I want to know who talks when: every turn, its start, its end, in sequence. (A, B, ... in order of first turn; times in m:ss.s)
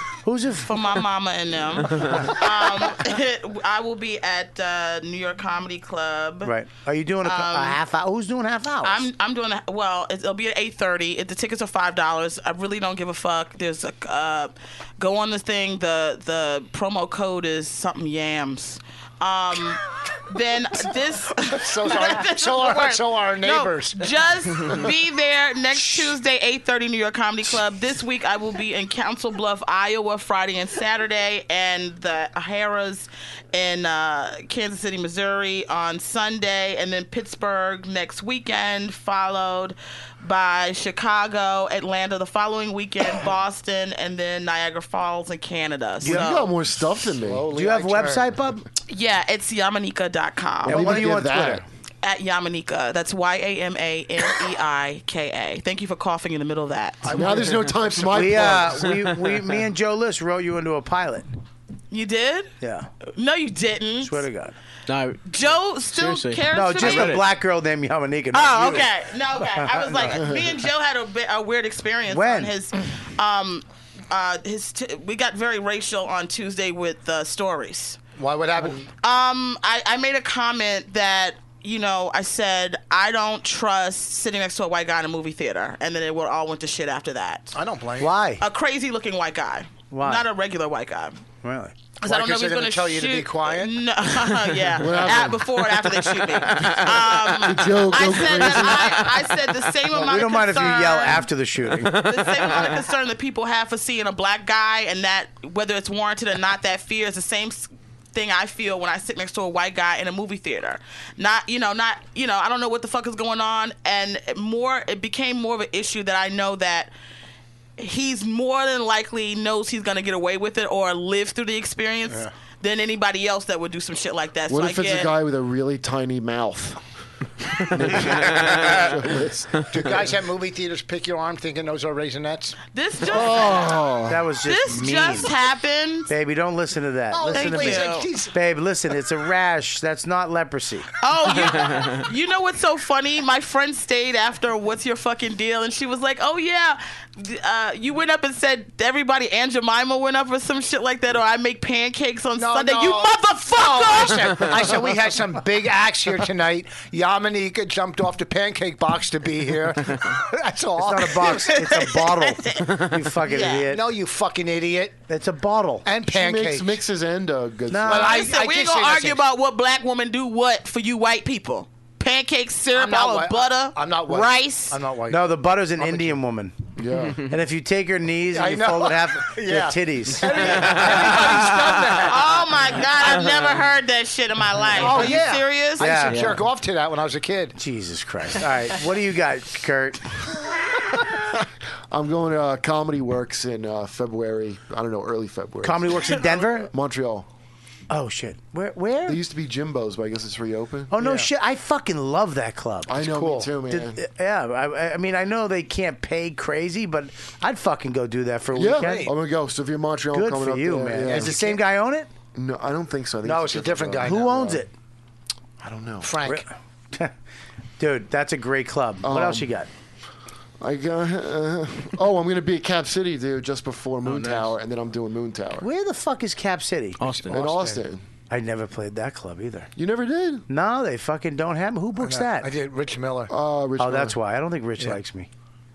0:00.2-0:00.9 A
0:00.7-0:06.5 B
0:06.4-0:09.1 A
0:07.2-0:07.8 B
0:08.8-0:46.5 B
0:21.5-0:24.0 C
0:46.0-0:46.3 A
0:46.0-0:47.5 D
0:47.2-0:48.3 C
0:47.5-0:48.6 A
0:48.9-0:51.0 B
0:50.6-0:51.6 D
0:50.6-0:51.6 A
0:52.0-0:57.2 B
0:57.0-0:57.9 C
0:57.1-0:59.0 D
0:57.9-1:01.3 A
1:01.9-1:02.5 B
1:02.6-1:02.9 A
1:03.0-1:04.2 B
1:04.0-1:04.5 A
1:04.9-1:05.2 E
1:05.2-1:07.2 B
1:05.9-1:07.2 E
1:06.5-1:08.9 A
1:08.3-1:18.0 B
1:09.6-1:10.2 A
1:10.1-1:10.5 D
1:12.1-1:12.5 A
1:18.2-1:18.9 C
1:19.0-1:27.6 B
1:27.5-1:28.1 C
1:28.0-1:28.4 A
1:28.4-1:31.2 B
1:29.9-1:30.2 A
1:31.4-1:31.7 A
1:32.0-1:33.7 C
1:32.0-1:41.3 B
1:34.7-1:35.6 D
1:37.2-1:39.1 D
1:38.4-1:38.7 A
1:39.9-1:42.3 A
1:41.8-1:56.9 B
1:57.8-2:05.1 B
2:04.5-2:06.8 D
2:07.7-2:09.9 D
2:08.2-2:08.8 A
2:09.6-2:12.6 C
2:12.7-2:13.8 B
2:13.0-2:14.2 D
2:13.1-2:15.3 A
2:14.4-2:16.1 B
2:16.1-2:20.9 A
2:17.1-2:18.3 C
2:17.3-2:18.1 B
2:21.0-2:34.5 B
2:32.4-2:41.6 C
2:40.8-2:43.9 A
2:41.2-2:43.7 B
2:43.7-2:45.0 C
2:45.1-2:45.9 A
2:45.8-2:46.8 C
2:46.1-2:48.2 D
2:47.7-2:48.1 A
2:47.9-2:49.2 C
2:47.9-2:54.8 B
2:52.7-2:55.2 C
2:55.1-2:56.6 A
2:55.8-2:56.1 C
2:56.8-2:57.3 D
2:57.2-3:00.5 A
2:58.3-3:02.2 C
3:02.0-3:06.1 B
3:04.7-3:07.6 C
3:05.8-3:06.4 A
3:06.0-3:06.4 E
3:07.6-3:10.1 A
3:11.9-3:16.0 D
3:15.6-3:16.7 A
3:16.7-3:17.3 D
3:17.9-3:19.2 A
3:19.0-3:20.9 D
3:20.9-3:29.1 A
3:21.0-3:21.2 C
3:22.9-3:24.0 D
3:23.1-3:23.5 C
3:28.5-3:31.4 D
3:28.7-3:29.1 C
3:30.1-3:32.1 A
3:31.0-3:31.6 C
3:32.3-3:34.6 D
3:33.2-3:34.6 C
3:34.0-3:34.7 A
3:35.6-3:36.1 D
3:36.0-3:36.4 C
3:36.2-3:37.1 A
3:37.8-3:39.7 A
3:39.0-3:39.5 D
3:40.6-3:45.7 D
3:44.0-3:44.5 E
3:45.6-3:47.0 A
3:47.0-3:47.5 E
3:47.1-3:47.8 C
3:47.3-3:48.0 D
3:48.3-3:49.7 A
3:49.8-3:50.4 D
3:50.5-3:52.5 A
3:52.0-3:53.3 C
3:53.3-3:54.2 D
3:53.8-3:55.3 A